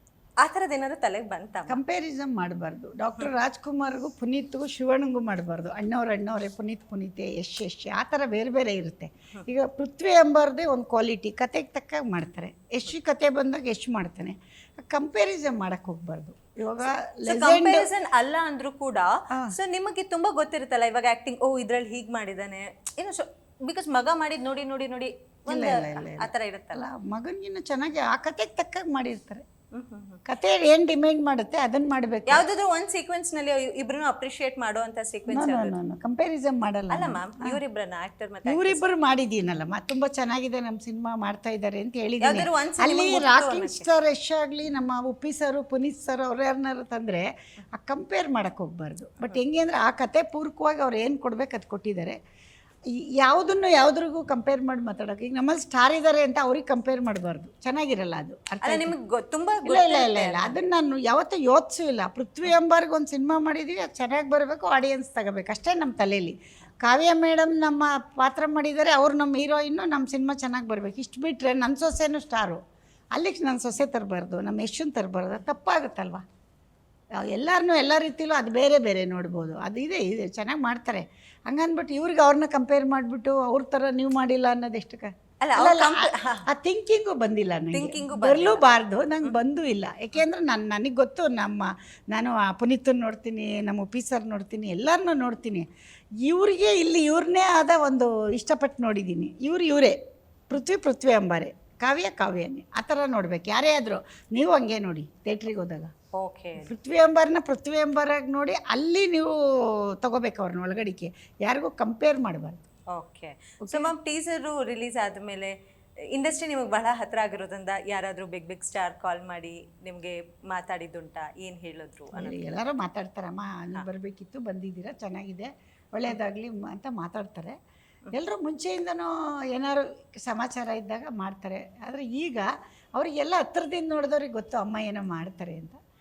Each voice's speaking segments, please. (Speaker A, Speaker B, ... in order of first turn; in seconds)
Speaker A: 0.4-1.8, 17.3-26.8, 29.7-30.2, 32.3-35.8, 36.9-38.9, 42.2-43.9, 58.6-60.6, 85.4-86.5, 87.7-88.7, 106.1-106.7, 112.9-115.5, 116.1-122.5
Speaker B: 1.7-17.9, 25.5-29.4, 30.3-32.5, 35.3-37.6, 38.5-52.2, 53.2-59.0, 59.6-72.6, 73.2-76.2, 77.2-95.7, 96.2-100.0, 100.5-105.9, 106.6-112.6, 113.7-113.9, 122.1-127.5, 128.1-135.8